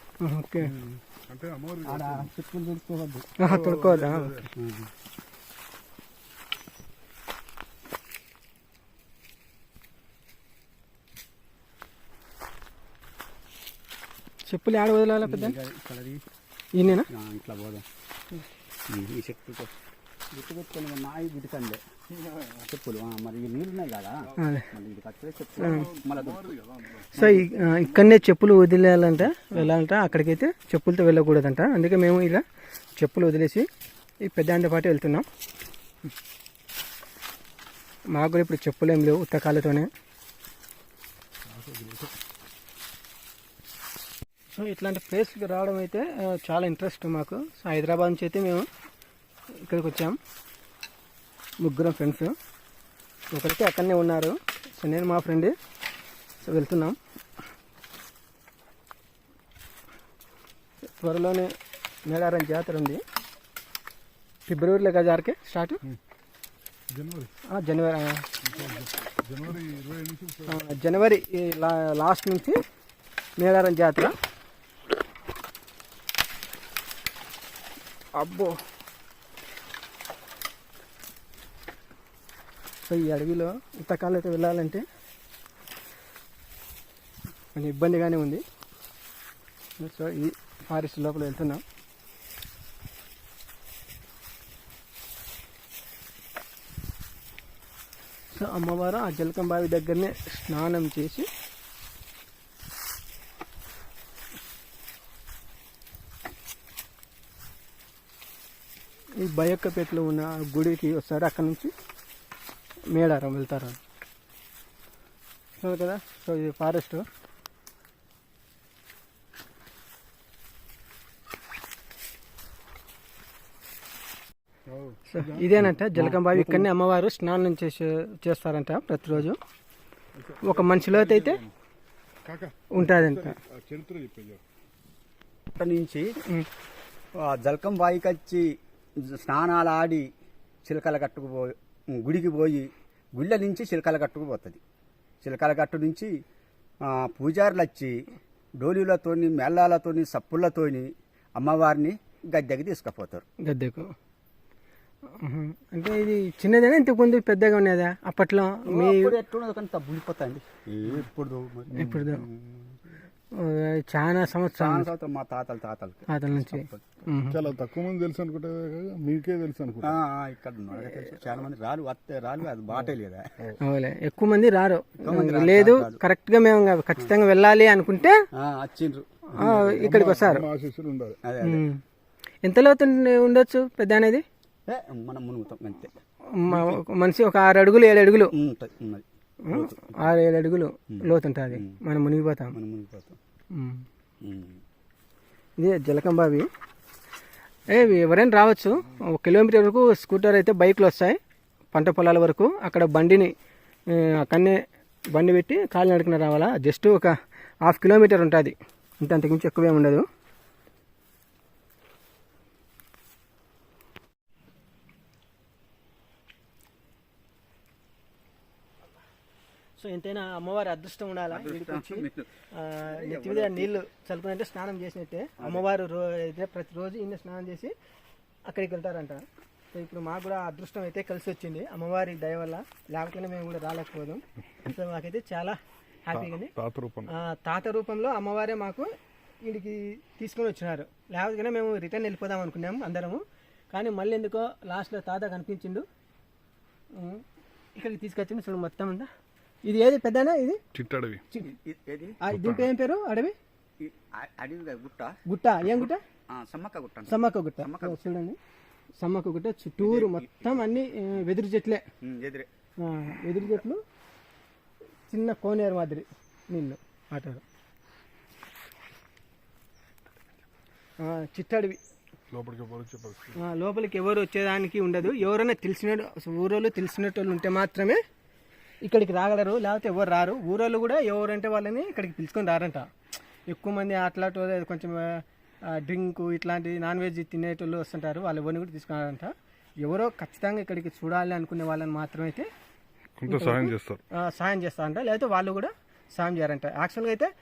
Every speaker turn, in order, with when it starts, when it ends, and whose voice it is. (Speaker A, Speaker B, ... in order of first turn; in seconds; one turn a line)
Speaker A: 0.2-0.7
Speaker B: 0.6-1.0
Speaker C: 1.3-2.3
Speaker B: 1.8-3.2
Speaker A: 3.4-4.3
Speaker C: 3.5-4.5
Speaker B: 4.6-4.9
Speaker A: 14.5-15.5
Speaker B: 15.2-16.2
Speaker A: 16.8-17.1
Speaker B: 17.1-17.8
Speaker B: 18.9-19.7
Speaker B: 20.3-21.8
Speaker B: 22.6-26.5
Speaker A: 24.4-24.7
Speaker C: 25.6-27.1
Speaker A: 25.6-25.9
Speaker A: 27.1-32.4
Speaker B: 27.2-27.4
Speaker C: 27.8-28.1
Speaker A: 33.0-33.6
Speaker A: 34.2-35.2
Speaker A: 38.1-39.9
Speaker C: 41.5-42.1
Speaker A: 44.5-48.6
Speaker A: 49.6-50.2
Speaker A: 51.6-52.3
Speaker A: 53.3-55.5
Speaker A: 56.4-57.0
Speaker A: 61.0-61.5
Speaker A: 62.1-63.0
Speaker A: 64.5-65.8
Speaker C: 66.9-67.3
Speaker A: 67.5-68.2
Speaker C: 68.4-70.6
Speaker A: 70.5-72.6
Speaker A: 73.4-74.1
Speaker A: 78.1-78.6
Speaker A: 82.8-84.8
Speaker A: 87.5-88.4
Speaker A: 89.8-91.6
Speaker A: 98.3-101.3
Speaker A: 109.2-111.7
Speaker A: 112.9-113.8
Speaker A: 115.6-117.0
Speaker C: 124.7-125.6
Speaker A: 125.1-129.4
Speaker B: 125.7-126.7
Speaker C: 130.2-131.5
Speaker A: 130.4-131.4
Speaker C: 132.2-134.4
Speaker A: 132.7-133.4
Speaker B: 135.6-136.1
Speaker B: 137.2-140.1
Speaker B: 140.6-144.6
Speaker B: 145.2-146.1
Speaker B: 146.8-147.9
Speaker B: 148.6-153.2
Speaker A: 153.4-153.9
Speaker A: 155.2-159.2
Speaker B: 158.7-162.6
Speaker A: 161.8-162.2
Speaker A: 163.4-164.9
Speaker B: 164.6-166.8
Speaker A: 166.1-167.4
Speaker C: 167.3-169.9
Speaker B: 169.8-173.2
Speaker A: 173.6-178.1
Speaker B: 175.0-176.0
Speaker B: 178.4-179.2
Speaker A: 179.4-180.4
Speaker C: 179.4-181.2
Speaker B: 181.2-181.6
Speaker A: 181.4-181.8
Speaker A: 182.4-184.2
Speaker B: 184.7-185.9
Speaker A: 186.4-188.3
Speaker B: 186.5-186.8
Speaker B: 188.4-190.0
Speaker A: 189.4-192.5
Speaker B: 190.9-191.7
Speaker B: 192.5-193.2
Speaker A: 193.5-193.8
Speaker B: 194.2-194.6
Speaker A: 195.6-196.5
Speaker A: 197.7-201.2
Speaker A: 201.7-203.3
Speaker A: 203.9-204.6
Speaker A: 205.1-207.1
Speaker A: 207.6-210.0
Speaker A: 219.8-227.7
Speaker B: 221.3-222.3
Speaker B: 222.9-223.7
Speaker A: 228.5-236.5
Speaker C: 236.1-237.1
Speaker A: 237.1-238.9
Speaker A: 239.4-245.8
Speaker A: 246.9-247.2
Speaker A: 247.8-249.1
Speaker A: 249.7-250.6
Speaker C: 250.7-251.2
Speaker B: 251.4-252.2
Speaker A: 252.2-253.3
Speaker C: 252.3-252.7
Speaker B: 253.8-255.2
Speaker A: 255.2-256.0
Speaker B: 256.3-258.0
Speaker A: 257.1-258.4
Speaker A: 259.0-261.8
Speaker B: 259.8-260.6
Speaker B: 262.0-262.5
Speaker A: 262.8-263.8
Speaker A: 265.1-267.4
Speaker A: 271.0-271.8
Speaker C: 272.3-273.4
Speaker A: 273.4-278.0
Speaker A: 278.8-282.9
Speaker A: 283.5-292.5
Speaker C: 293.2-294.0
Speaker A: 293.3-297.3